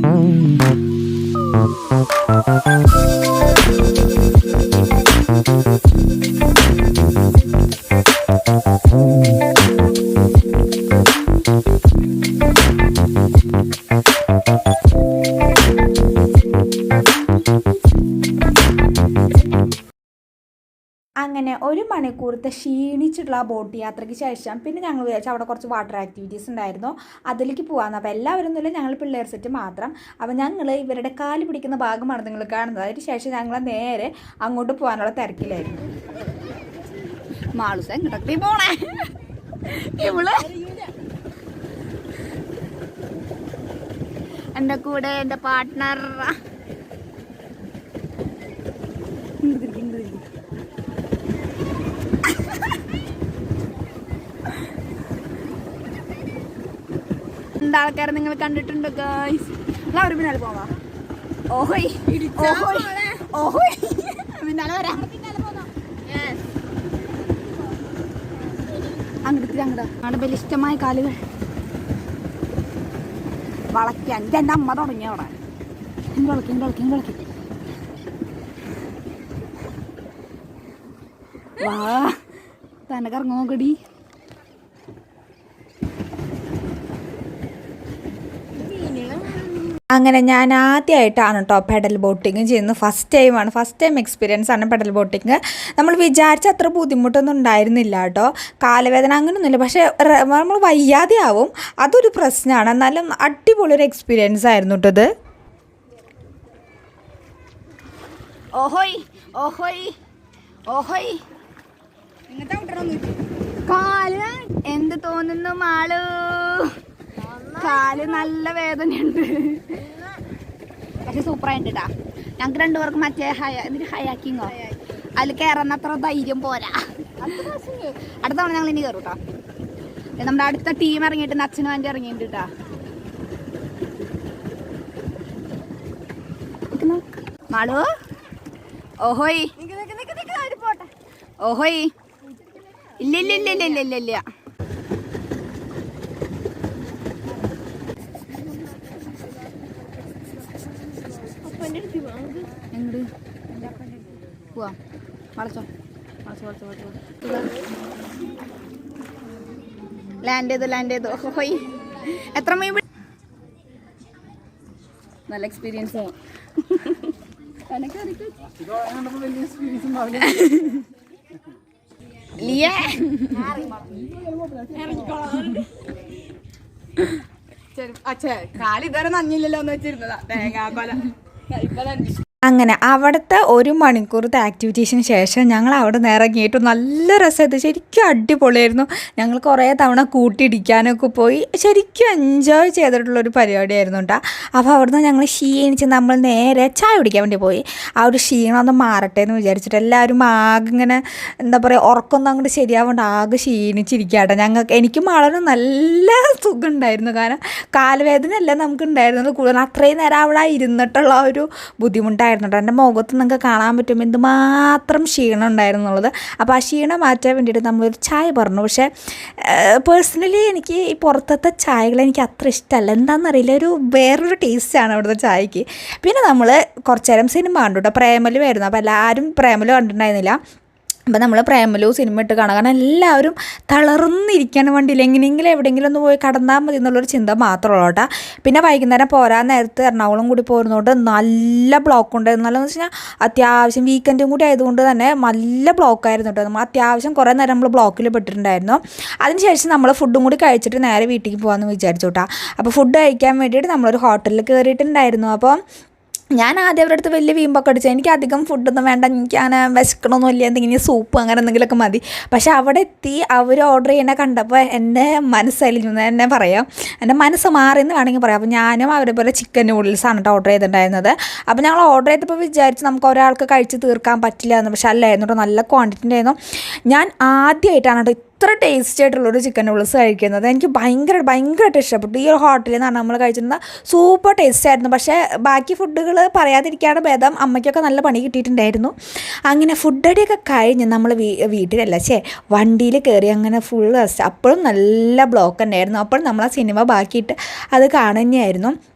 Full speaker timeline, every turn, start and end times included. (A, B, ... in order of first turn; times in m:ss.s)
0:21.2-0:35.8 A
0:37.6-0:39.0 B
0:39.7-0:40.8 B
0:44.6-0:46.3 B
0:49.5-0:50.1 A
0:49.6-0:50.2 B
0:57.6-1:00.7 B
1:01.5-1:06.4 B
1:02.1-1:02.9 C
1:02.5-1:03.0 A
1:09.3-1:11.1 B
1:10.3-1:11.1 A
1:13.7-1:15.3 B
1:16.2-1:16.6 A
1:16.4-1:17.1 B
1:21.6-1:22.1 A
1:21.6-1:22.1 B
1:22.9-1:23.6 B
1:28.6-1:29.6 B
1:29.9-1:45.1 A
1:48.6-1:49.9 B
1:50.7-1:51.2 B
1:52.3-1:53.1 B
1:53.7-1:56.7 B
1:57.4-1:59.7 B
1:57.6-1:59.6 A
2:01.0-2:01.9 B
2:02.4-2:04.5 B
2:05.2-2:09.2 B
2:07.3-2:08.0 C
2:10.2-2:12.5 B
2:17.5-2:17.9 B
2:19.0-2:20.9 B
2:21.4-2:21.9 B
2:23.0-2:24.2 B
2:23.4-2:23.8 A
2:23.4-2:23.6 C
2:31.4-2:32.5 C
2:31.6-2:31.9 B
2:32.8-2:33.0 B
2:35.4-2:35.7 B
2:36.3-2:37.4 B
2:40.2-2:42.8 B
2:45.3-2:46.1 B
2:47.7-2:48.1 B
2:48.1-2:50.8 C
2:50.4-2:50.7 A
2:52.4-2:53.7 B
2:53.3-2:55.6 C
2:54.9-2:55.5 B
2:57.8-3:02.2 C
3:02.4-3:50.4 A
3:51.1-4:15.6 A
4:16.4-4:48.9 A
4:49.5-4:58.7 A